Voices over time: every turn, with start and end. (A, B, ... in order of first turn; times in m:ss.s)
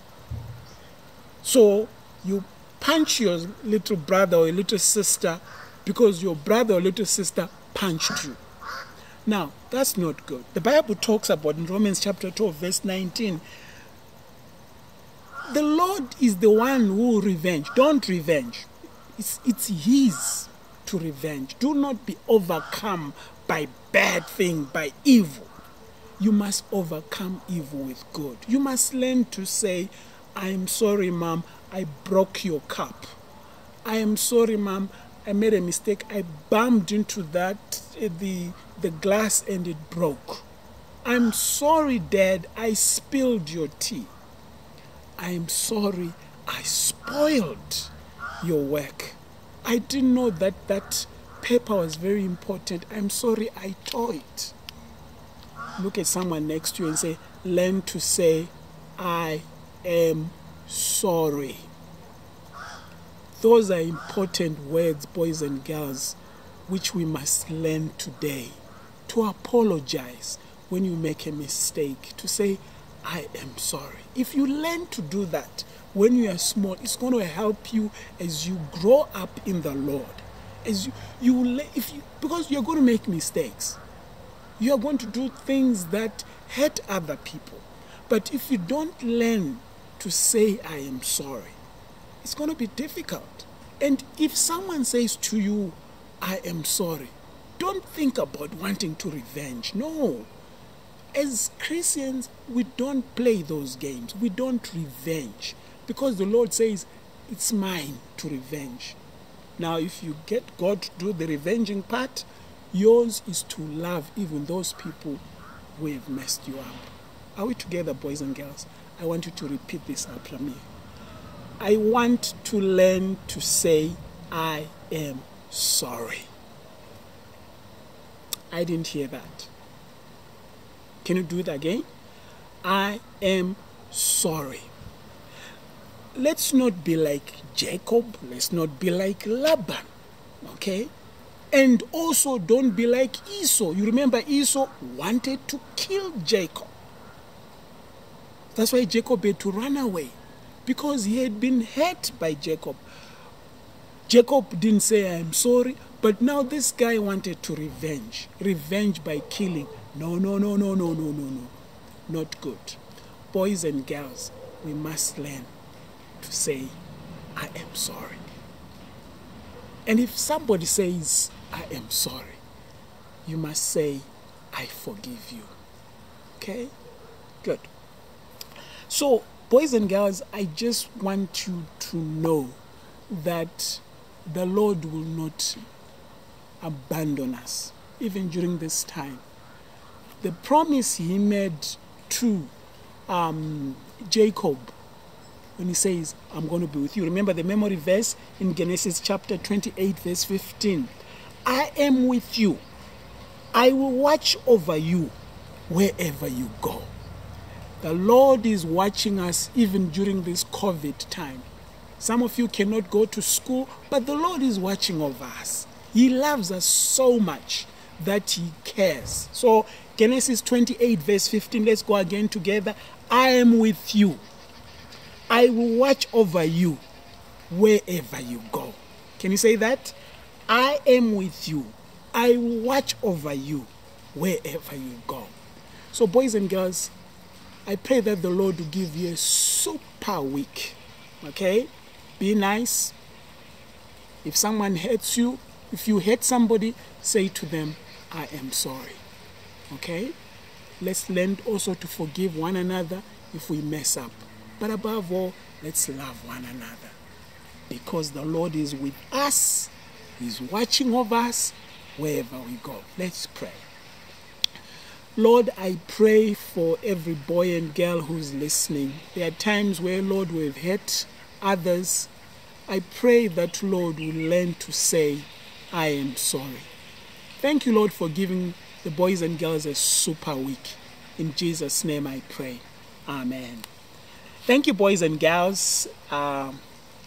0:01.4-0:08.4 A
0:09.2-0:13.4 A
0:15.5-0:25.5 A
0:26.2-0:33.1 A
0:33.8-0:40.4 A
0:41.0-0:44.1 A
0:45.2-0:54.5 A
0:55.8-1:01.7 A
1:03.3-1:23.8 A
1:24.6-1:31.6 A
1:32.2-1:40.3 A
1:41.1-1:49.0 A
1:49.6-1:55.2 A
1:55.8-2:00.6 A
2:01.6-2:06.3 A
2:08.5-2:09.5 A
2:11.0-2:11.8 A
2:12.6-2:14.7 A
2:16.1-2:19.9 A
2:20.4-2:20.9 A
2:21.5-2:26.7 A
2:28.5-2:32.8 A
2:34.1-2:41.5 A
2:42.1-2:42.8 A
2:43.3-2:45.5 A
2:46.2-2:46.8 A
2:47.4-2:48.2 A
2:49.8-2:52.4 A
2:53.2-2:55.5 A
2:56.4-2:56.7 A
2:57.4-2:57.7 A
2:58.9-3:05.6 A
3:06.6-3:09.2 A
3:10.2-3:12.5 A
3:13.1-3:14.7 A
3:15.6-3:20.9 A
3:21.4-3:22.6 A
3:23.5-3:25.1 A
3:25.7-3:26.9 A
3:27.8-3:31.4 A
3:32.0-3:44.2 A
3:45.3-3:46.8 A
3:47.5-3:49.9 A
3:50.5-3:55.3 A
3:55.9-3:56.9 A
3:57.6-4:03.0 A
4:04.2-4:09.0 A
4:09.7-4:10.1 A
4:10.8-4:17.0 A
4:17.7-4:23.6 A
4:25.2-4:32.1 A
4:32.7-4:36.7 A
4:37.4-4:43.7 A
4:44.4-4:46.6 A